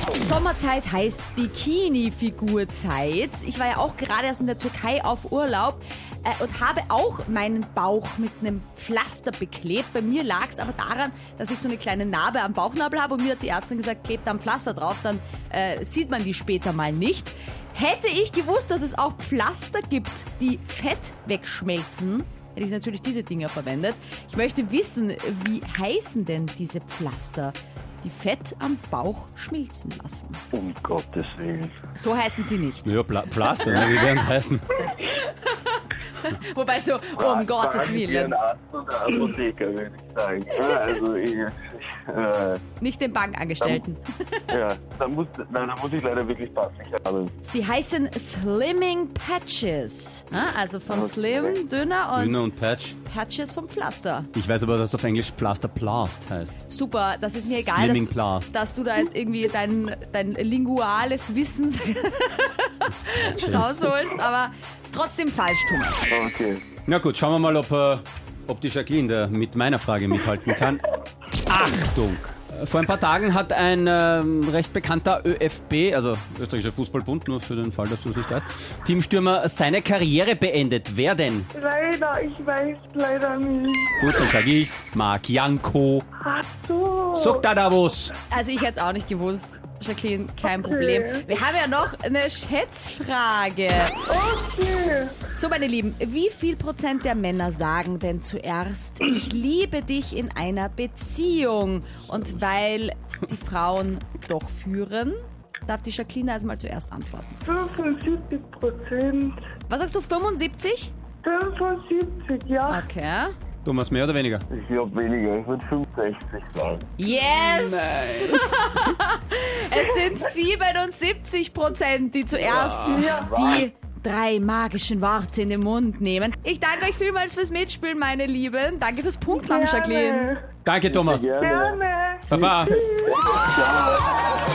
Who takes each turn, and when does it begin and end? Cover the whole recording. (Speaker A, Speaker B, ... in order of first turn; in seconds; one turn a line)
Speaker A: 0.1-30.4
Speaker B: 30.5-31.8
Speaker A: 31.9-32.9
Speaker C: 32.9-34.7
Speaker A: 34.8-38.4
Speaker B: 37.1-42.6
Speaker A: 42.8-44.5
Speaker B: 44.5-47.3
Speaker A: 47.4-52.5
Speaker B: 50.9-51.6
Speaker C: 52.2-53.0
Speaker A: 53.0-54.3
Speaker C: 54.3-56.6
Speaker A: 56.7-66.1
Speaker C: 57.4-58.6
Speaker C: 63.1-63.9
Speaker B: 66.1-66.7
Speaker C: 66.9-70.9
Speaker C: 71.5-81.5
Speaker D: 81.5-84.1
Speaker C: 84.0-86.0
Speaker D: 86.2-87.4
Speaker C: 87.1-88.1
Speaker A: 88.3-94.0
Speaker D: 90.4-91.3
Speaker D: 94.1-95.2
Speaker A: 95.3-107.4
Speaker C: 102.1-102.3
Speaker D: 107.4-109.4
Speaker A: 109.7-110.9
Speaker D: 111.2-112.8
Speaker A: 112.7-113.3
Speaker C: 113.6-114.4
Speaker B: 114.5-116.9
Speaker A: 117.0-130.3
Speaker C: 117.2-118.8
Speaker C: 122.4-123.0
Speaker D: 122.8-123.6
Speaker B: 123.1-123.7
Speaker D: 129.3-130.4
Speaker C: 130.6-131.2
Speaker B: 130.9-134.2
Speaker D: 131.4-133.3
Speaker C: 132.3-132.7